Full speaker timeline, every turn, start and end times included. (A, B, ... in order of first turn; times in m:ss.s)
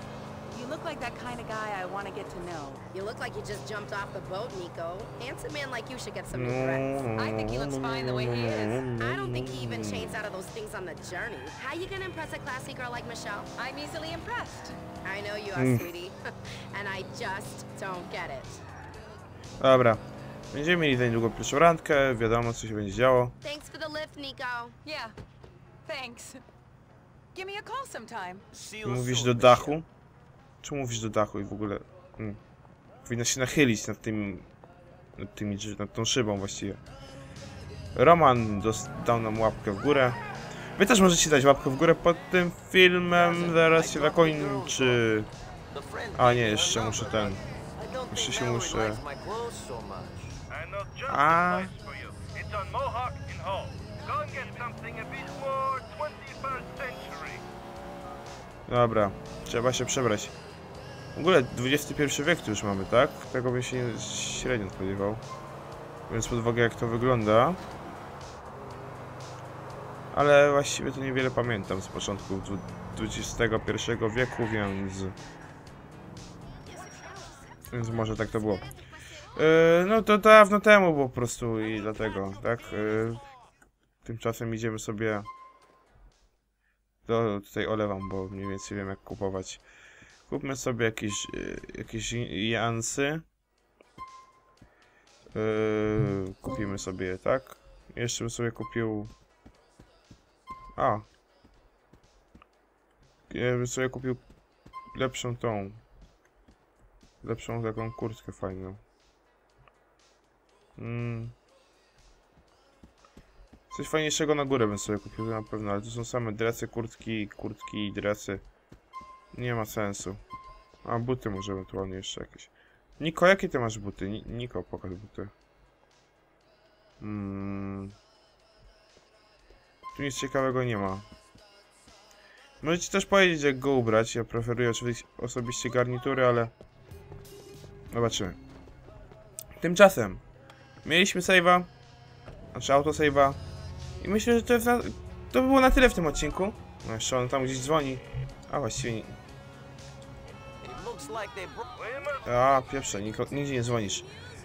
0:00.5-0:02.8 A
0:02.9-0:07.1 B
0:06.3-0:10.2 C
0:07.2-0:08.9 A
0:08.9-0:13.5 B
0:13.6-0:14.8 A
0:15.0-0:16.2 B
0:15.6-0:15.9 C
0:16.7-0:18.6 B
0:19.6-0:23.4 C
0:23.4-0:24.8 B
0:24.8-0:25.2 A
0:25.8-0:26.4 A
0:27.3-0:28.4 A
0:28.5-0:29.8 D
0:28.8-0:29.9 C
0:30.6-0:32.4 C
0:33.0-0:34.5 C
0:35.2-0:36.8 C
0:38.0-0:40.2 C
0:40.8-0:45.3 C
0:43.1-0:45.1 D
0:45.7-0:50.4 D
0:46.2-0:47.4 C
0:46.9-0:47.4 E
0:48.1-0:49.0 C
0:50.5-0:57.4 E
0:51.1-0:51.8 C
0:58.7-1:00.3 C
1:01.2-1:05.2 C
1:06.1-1:07.6 C
1:10.1-1:15.2 C
1:16.7-1:17.6 B
1:17.7-1:18.6 C
1:19.3-1:23.3 C
1:24.0-1:25.3 C
1:27.1-1:29.6 C
1:30.3-1:33.3 C
1:35.3-1:39.1 C
1:40.8-1:41.1 C
1:43.3-1:44.2 C
1:44.9-1:45.8 C
1:47.2-1:48.8 C
1:50.8-1:51.4 C
1:53.7-1:58.4 C
1:59.3-2:00.2 C
2:00.8-2:05.3 C
2:07.0-2:08.0 C
2:10.0-2:11.1 C
2:12.6-2:16.5 C
2:17.9-2:18.4 C
2:19.6-2:20.2 C
2:20.8-2:21.7 C
2:22.5-2:23.4 C
2:24.0-2:29.2 C
2:30.6-2:31.7 D
2:31.8-2:32.3 E
2:32.2-2:34.1 C